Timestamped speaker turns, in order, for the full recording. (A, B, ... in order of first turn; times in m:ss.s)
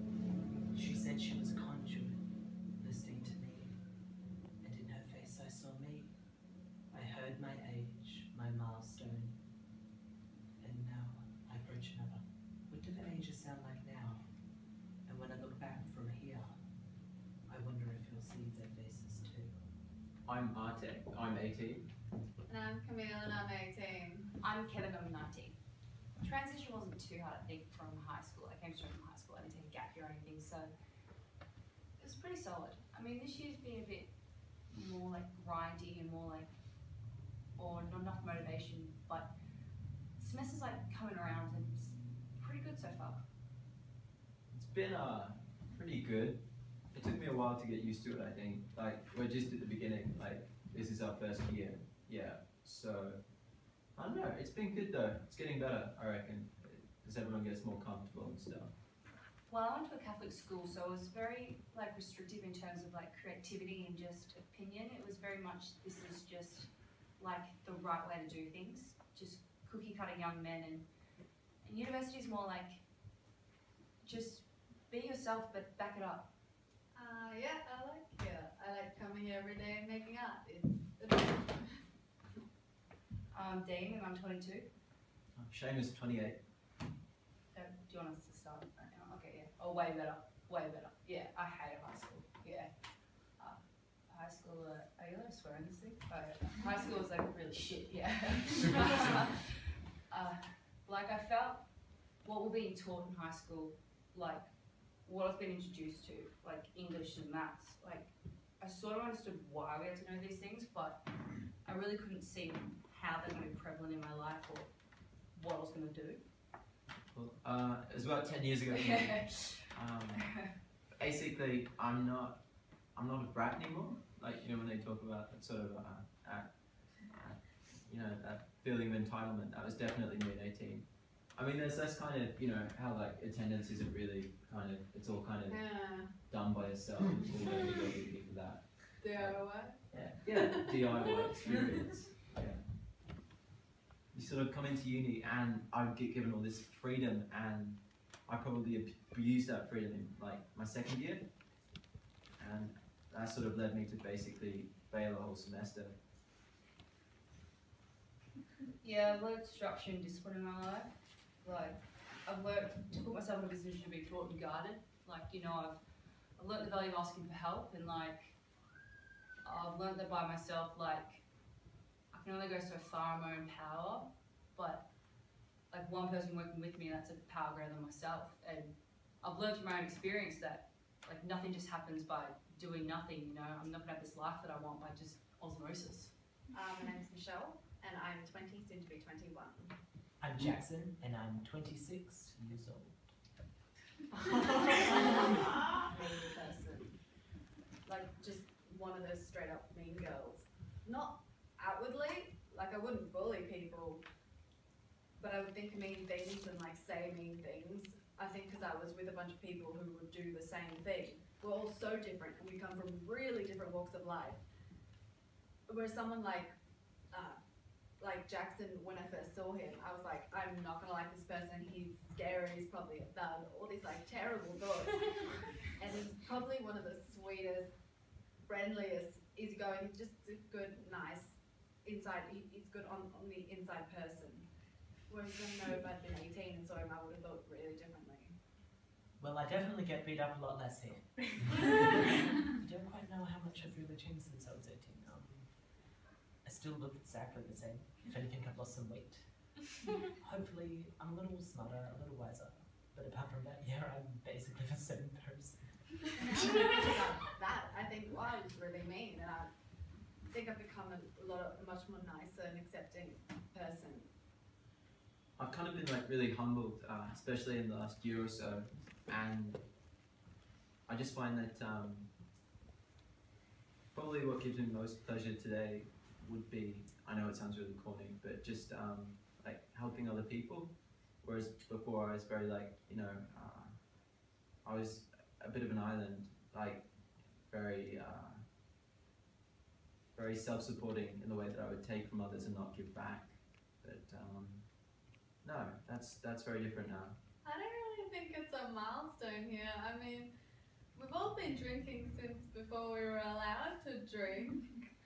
0:00.7-0:02.2 A
0:02.8-0:03.8 A
0:04.6-0:06.1 A
0:06.9-0:09.4 A
0:10.6-0:14.2 A
0:15.1-0:16.6 A
0:17.5-0:19.6 A
0:20.3-0:21.9 B
0:22.5-0:24.3 C
0:24.4-0:25.6 D
0:26.2-0:30.7 D
0:32.0-0:34.1 D
0:34.7-0:36.5 D
0:37.6-0:39.3 D
0:40.2-0:43.2 D
0:44.5-0:53.2 B
0:53.9-0:58.7 B
0:59.5-1:10.9 D
1:11.6-1:12.8 D
1:14.0-1:16.3 D
1:17.0-1:21.8 C
1:23.3-1:24.7 D
1:25.4-1:26.4 B
1:27.5-1:32.7 D
1:33.4-1:41.6 D
1:42.2-1:44.5 D
1:45.0-1:51.0 D
1:51.6-1:54.7 D
1:55.3-1:56.2 D
1:57.1-2:22.7 B
1:58.7-2:00.4 D
2:15.5-2:16.1 C
2:19.0-2:21.6 C
2:24.1-2:31.3 B
2:32.4-2:36.0 B
2:38.8-2:48.4 D
2:49.4-2:51.2 D
2:52.1-2:54.9 D
2:55.7-3:06.1 D
3:06.5-3:09.8 C
3:10.2-3:13.0 A
3:14.3-3:17.0 C
3:17.8-3:24.0 C
3:25.2-3:34.4 C
3:35.7-3:36.6 C
3:37.1-3:37.4 C
3:38.0-3:47.7 C
3:48.4-3:54.5 C
3:55.1-3:58.4 C
3:59.2-4:05.6 A
4:06.4-4:16.8 A
4:16.2-4:19.5 C
4:20.3-4:24.1 C
4:25.4-4:29.6 B
4:30.9-4:32.1 B
4:33.9-4:43.9 B
4:44.6-4:48.4 B
4:50.1-4:54.8 B
4:55.4-4:57.2 B
4:57.4-5:00.3 C
5:00.9-5:04.8 C